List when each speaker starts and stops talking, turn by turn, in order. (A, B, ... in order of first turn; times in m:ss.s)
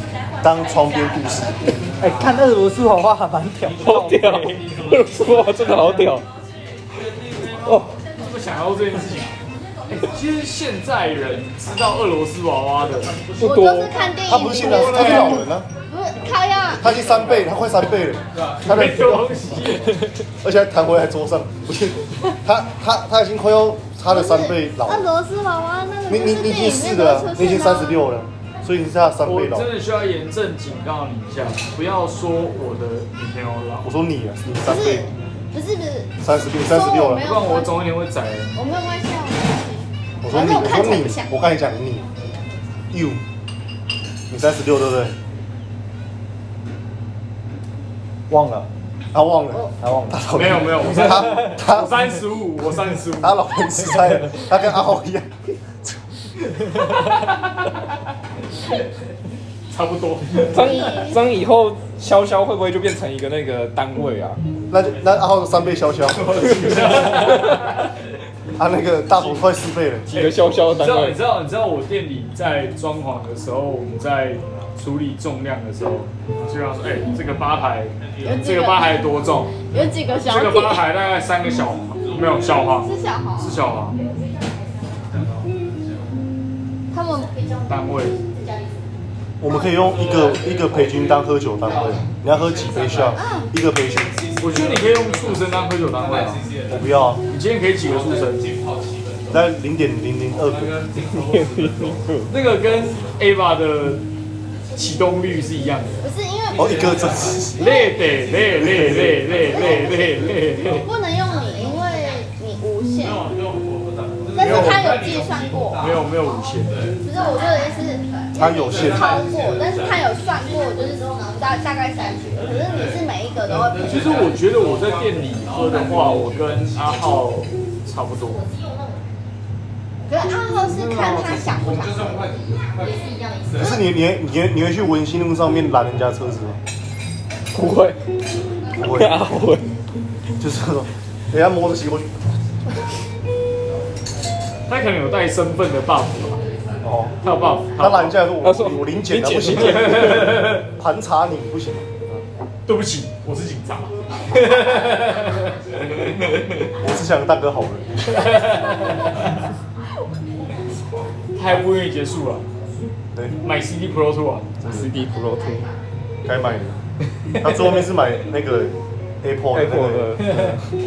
0:00.4-0:01.7 A
0:02.0-0:04.6 B
0:03.8-0:06.3 C
0:07.5-0:07.9 C
0:08.0-0:09.4 D
0:09.9-0:13.3 D
0:13.3-0:14.4 C
0:13.4-0:16.9 E
0:14.3-0:15.7 A
0:14.6-0:15.4 D
0:16.8-0:19.3 A
0:18.4-0:20.2 D
0:20.4-0:25.1 A
0:24.1-0:28.0 E
0:26.1-0:29.7 A
0:29.2-0:33.9 D
0:33.8-0:35.1 A
0:34.6-0:37.7 E
0:36.2-0:37.3 A
0:37.2-0:38.6 D
0:38.6-0:41.4 E
0:40.2-0:42.1 A
0:42.9-0:43.2 A
0:44.3-0:45.2 A
0:48.3-0:48.7 B
0:49.1-0:52.0 A
0:49.8-0:50.3 B
0:50.3-0:53.4 D
0:53.2-0:55.3 A
0:59.7-1:00.7 D
1:00.4-1:04.4 C
1:00.5-1:01.3 E
1:04.7-1:07.2 A
1:06.3-1:07.9 D
1:07.2-1:07.6 C
1:08.6-1:10.1 A
1:10.1-1:11.2 C
1:10.1-1:19.6 D
1:18.2-1:18.9 E
1:19.6-1:20.9 E
1:20.2-1:24.0 D
1:22.8-1:23.6 E
1:26.9-1:27.4 E
1:27.7-1:28.2 D
1:29.4-1:34.2 A
1:29.5-1:29.8 E
1:33.1-1:33.5 E
1:34.4-1:36.5 D
1:36.7-1:37.2 A
1:37.3-1:38.6 D
1:39.3-1:40.8 A
1:41.0-1:42.3 C
1:42.3-1:44.0 D
1:44.7-1:46.0 D
1:46.0-1:46.9 E
1:46.5-1:47.6 A
1:47.6-1:48.2 E
1:47.6-1:50.9 D
1:48.6-1:49.2 A
1:49.5-1:53.3 E
1:54.3-1:55.8 E
1:54.4-1:56.9 D
1:57.0-2:04.3 E
1:58.4-1:59.1 A
2:03.9-2:08.5 D
2:10.1-2:12.6 E
2:13.5-2:16.6 A
2:17.5-2:18.0 C
2:18.8-2:19.2 A
2:18.8-2:19.7 C
2:20.4-2:22.1 A
2:24.7-2:26.4 D
2:26.8-2:27.2 A
2:27.2-2:28.2 D
2:27.8-2:32.2 A
2:28.4-2:30.4 C
2:29.7-2:30.6 D
2:32.7-2:35.8 D
2:36.8-2:38.0 A
2:38.1-2:39.4 D
2:41.4-2:42.5 D
2:43.1-2:43.4 A
2:43.4-2:44.6 D
2:44.6-2:45.7 C
2:46.2-2:46.8 A
2:47.4-2:50.6 A
2:49.5-2:50.6 C